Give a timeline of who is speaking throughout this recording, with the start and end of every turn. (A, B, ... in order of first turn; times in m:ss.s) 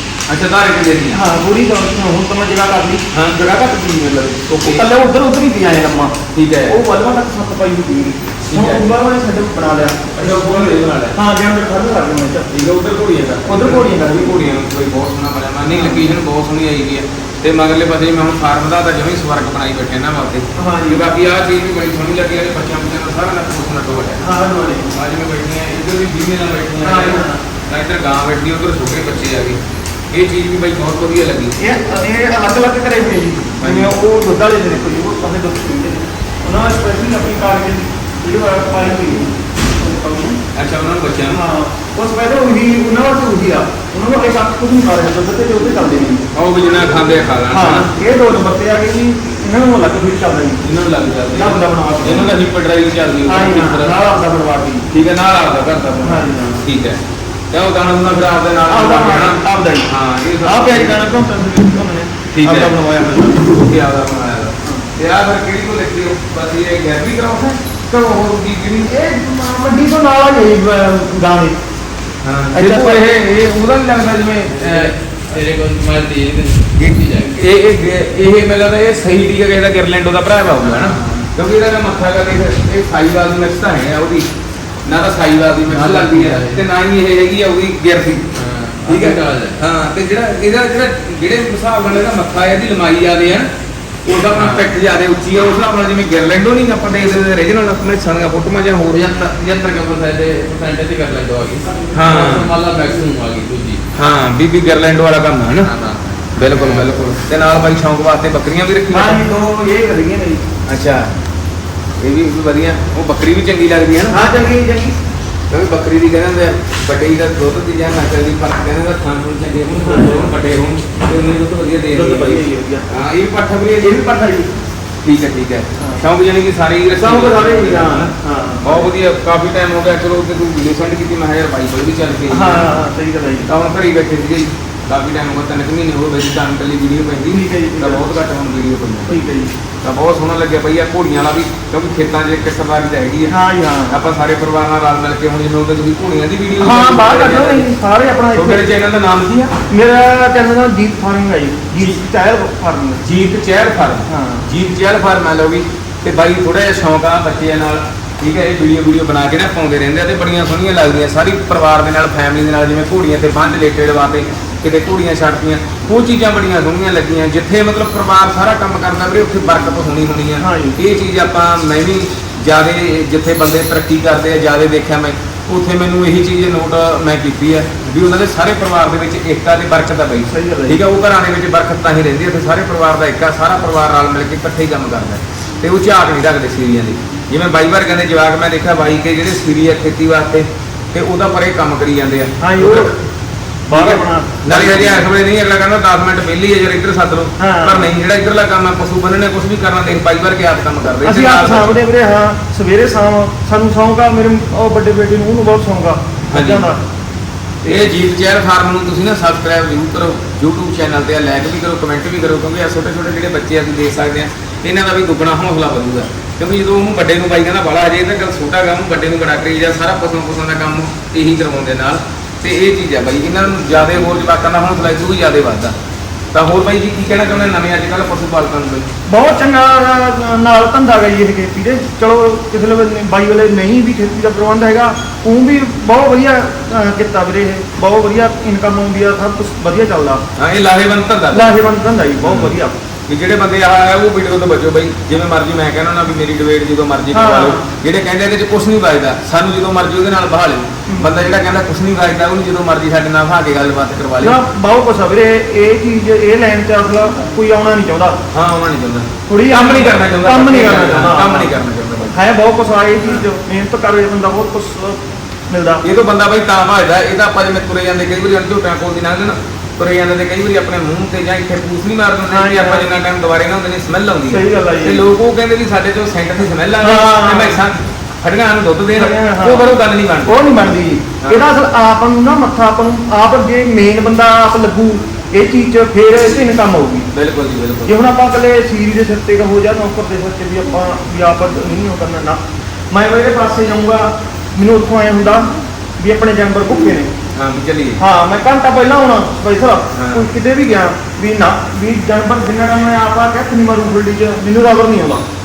0:00.3-0:01.2 A
0:01.1-0:03.0 B
0:03.1-0:04.8 A
0:04.6-0:12.5 B
0:06.3-0:06.8 A
0:08.5-0:08.9 A
0:10.2-0:11.2 A
0:12.5-0:24.2 A
0:13.4-0:14.5 B
0:15.7-0:16.1 B
0:20.6-0:21.1 B
0:24.2-0:24.9 B
0:24.9-0:31.6 A
0:26.8-0:27.4 B
0:31.6-0:40.4 B
0:33.6-0:33.9 A
0:40.5-0:41.4 A
0:41.3-0:46.2 B
0:46.3-0:47.9 A
0:47.5-0:50.6 B
0:50.6-0:54.0 A
0:51.3-0:52.4 B
0:53.2-0:54.9 B
0:54.9-0:57.0 A
0:56.0-0:56.6 B
0:57.5-1:01.1 A
0:58.7-1:03.5 B
1:02.3-1:02.8 A
1:03.4-1:08.9 A
1:08.8-1:11.6 B
1:12.2-1:14.9 A
1:12.5-1:13.0 B
1:14.5-1:17.4 C
1:16.8-1:24.3 A
1:20.6-1:21.3 C
1:24.8-1:28.3 A
1:25.7-1:26.6 C
1:28.4-1:29.6 C
1:28.9-1:33.5 A
1:34.0-1:39.1 A
1:34.3-1:34.7 C
1:38.9-1:43.8 C
1:41.9-1:42.5 A
1:43.9-1:45.7 A
1:45.6-1:46.9 C
1:46.4-1:49.2 A
1:48.9-1:50.4 B
1:50.7-1:51.1 A
1:52.0-1:54.2 A
1:54.1-1:55.0 B
1:55.5-2:04.1 A
1:59.7-2:00.3 B
2:01.9-2:02.9 B
2:03.8-2:04.5 B
2:05.0-2:12.7 A
2:07.0-2:08.9 B
2:12.3-2:13.5 B
2:13.4-2:19.2 A
2:17.3-2:18.1 B
2:19.1-2:19.5 B
2:19.8-2:23.4 A
2:23.3-2:24.0 B
2:23.9-2:27.7 A
2:26.6-2:28.6 B
2:28.3-2:29.5 A
2:29.7-2:33.0 B
2:33.0-3:12.9 A
2:34.1-2:34.5 B
2:50.4-2:50.8 B
3:00.3-3:00.8 B
3:12.4-3:12.9 B
3:13.7-3:15.0 B
3:13.7-3:21.8 A
3:17.4-3:17.9 B
3:21.0-3:26.8 B
3:26.3-3:26.7 A
3:27.6-3:27.9 B
3:27.7-3:45.7 A
3:46.3-3:48.9 A
3:49.1-4:00.2 B
4:00.4-4:01.5 A
4:01.3-4:02.7 B
4:02.2-4:02.5 A
4:03.1-4:14.4 A
4:07.1-4:07.7 B
4:10.9-4:11.3 B
4:14.2-4:18.2 B
4:18.3-4:22.2 A
4:19.3-4:21.5 B
4:22.1-4:25.8 B
4:25.8-4:40.3 A
4:32.3-4:32.9 B
4:34.3-4:35.0 B
4:36.8-4:37.6 B
4:39.0-4:47.1 B
4:47.1-4:48.0 A
4:47.8-4:57.1 B
4:57.3-4:58.0 A
4:58.0-5:05.2 B
4:59.9-5:00.3 A